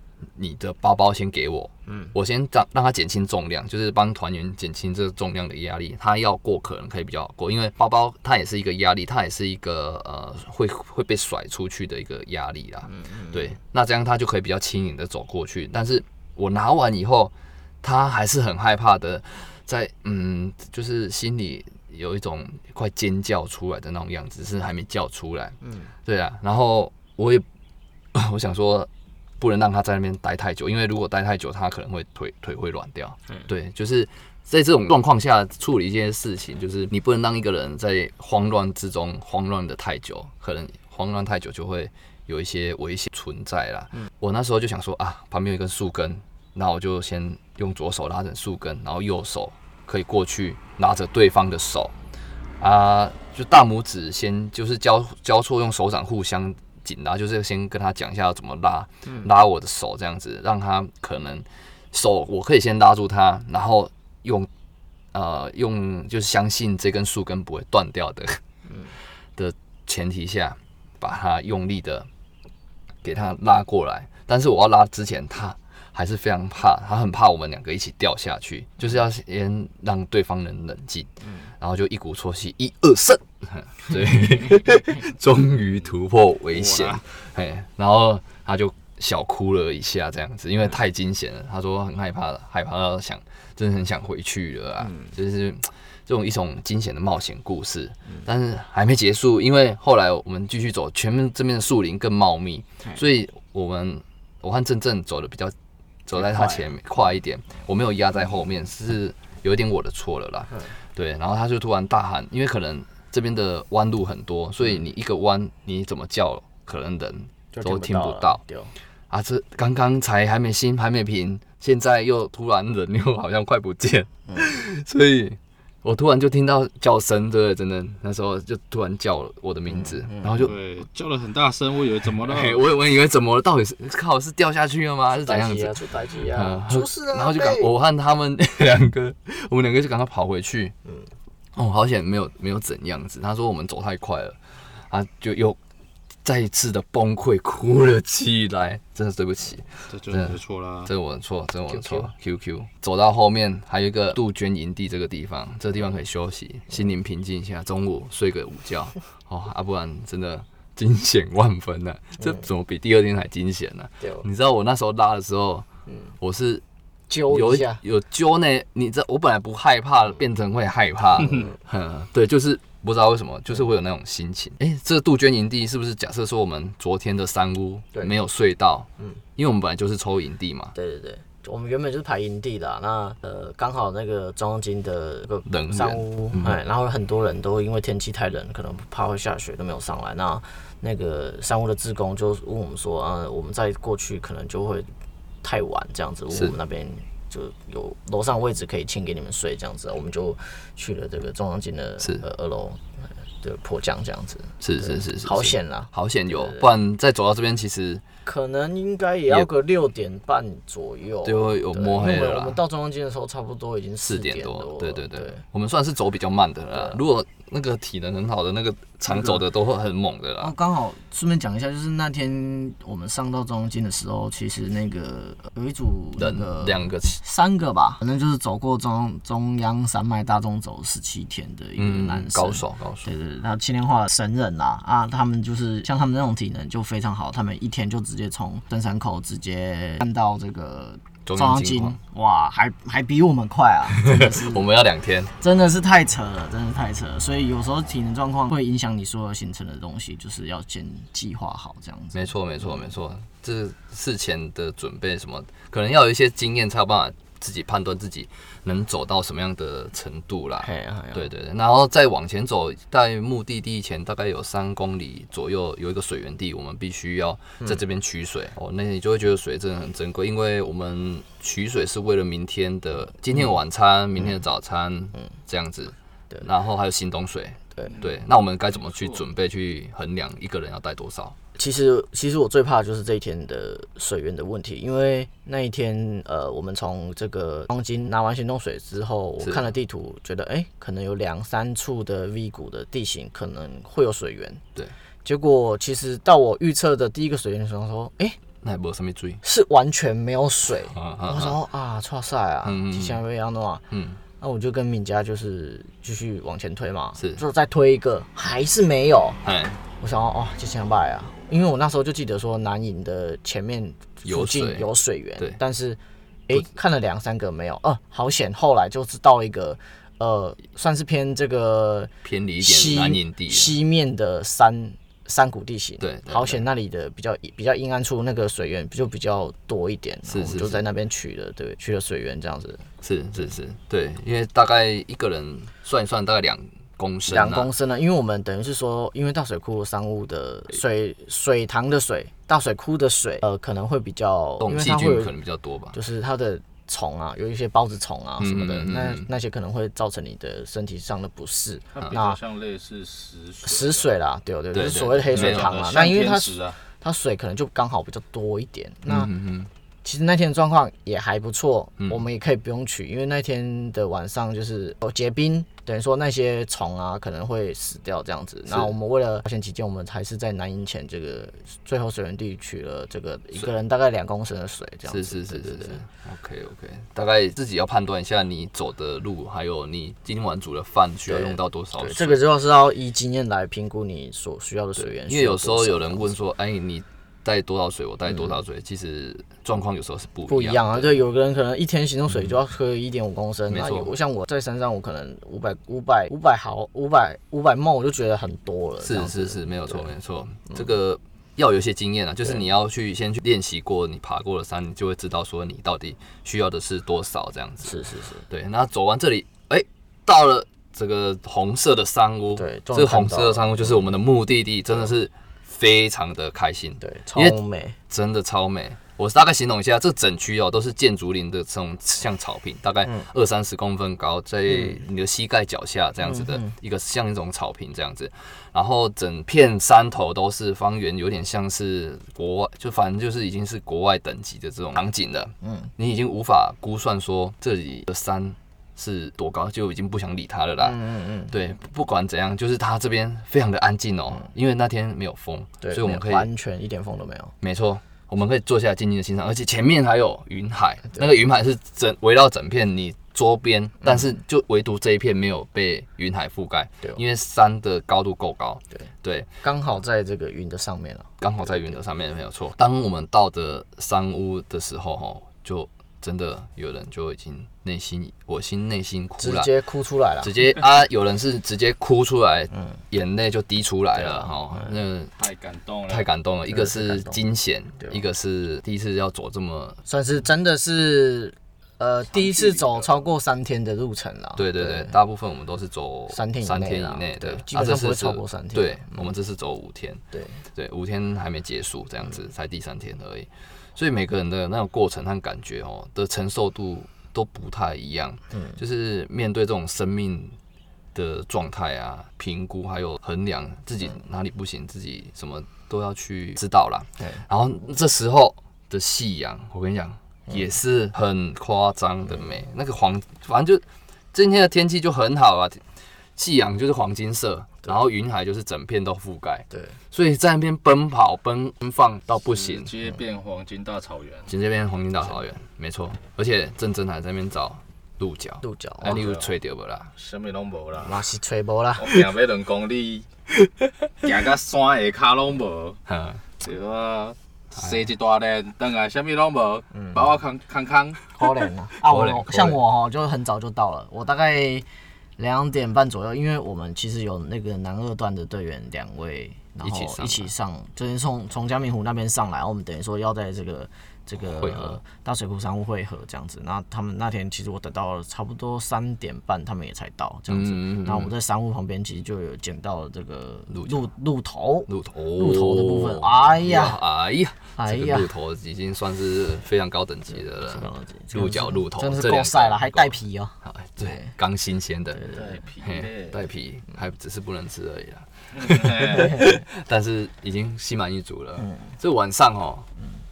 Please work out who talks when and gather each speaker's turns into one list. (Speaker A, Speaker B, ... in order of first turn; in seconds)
Speaker A: 0.3-27.4, 28.1-51.9, 52.6-64.5, 65.1-68.4, 69.3-72.1, 73.0-105.5, 106.1-118.4, 119.1-130.5, 132.2-140.7, 141.5-144.4, 144.9-145.6, 146.2-165.7, 166.2-166.6, 167.3-180.7, 185.4-186.6, 204.6-208.0, 211.2-212.6, 214.0-220.5, 226.2-227.2, 231.8-233.1, 241.2-242.0, 244.0-245.3, 252.1-281.4, 289.4-289.6, 298.6-299.4, 300.9-301.6, 302.6-303.2, 303.9-304.2, 307.1-307.4, 309.4-309.8, 314.2-315.6, 322.2-323.7, 326.0-326.6, 330.3-330.8, 333.0-337.7, 344.6-346.0, 348.4-349.3, 354.7-355.7, 359.1-359.7, 368.7-368.9, 375.1-382.4, 385.0-391.2, 393.7-394.1, 399.0-407.9, 408.5-417.6, 418.1-446.5, 447.6-459.6, 461.4-469.7, 470.4-475.3, 476.1-480.0, 484.6-490.2, 490.7-500.6, 501.1-515.8, 516.4-522.9, 524.5-530.1, 536.1-536.4, 542.1-542.8, 549.8-550.5, 554.4-555.0, 560.5-561.3, 563.7-564.1, 564.9-575.2, 575.8-582.9
Speaker B: 1.9-2.1, 12.9-13.4, 25.6-25.9, 81.2-81.5, 94.8-95.1, 106.2-106.7, 117.5-118.7, 129.7-130.5, 135.1-137.7, 151.7-152.1, 162.2-162.4, 164.0-164.2, 165.9-166.1, 167.1-167.8, 180.7-194.9, 195.4-206.7, 208.2-215.4, 216.7-217.0, 219.1-219.4, 220.4-244.6, 245.4-252.8, 260.6-261.3, 281.6-294.6, 295.2-298.4, 299.4-303.8, 304.4-309.4, 310.0-322.1, 322.6-332.9, 337.3-345.3, 345.9-352.4, 353.6-359.3, 360.0-376.0, 381.3-386.3, 388.3-388.5, 390.5-400.1, 407.8-408.4, 412.6-414.0, 417.0-418.0, 424.7-425.0, 426.2-426.7, 435.6-435.9, 440.8-441.5, 445.8-447.5, 459.6-461.9, 469.4-470.5, 474.2-474.9, 476.7-477.4, 480.1-485.1, 486.3-489.3, 490.3-490.6, 498.5-498.8, 519.7-520.0, 528.6-529.2, 531.0-532.2, 539.9-540.2, 541.3-544.8, 545.4-567.0, 567.8-568.3, 570.6-574.3, 575.1-575.6, 581.6-581.9
Speaker C: 86.5-87.0, 130.4-132.6, 149.9-150.9, 351.9-354.1, 355.3-356.8, 475.4-476.3, 482.3-483.3, 522.4-524.5, 529.0-529.5, 530.1-531.2, 532.0-533.3, 534.2-536.0, 536.6-541.2, 575.3-576.4, 578.6-579.4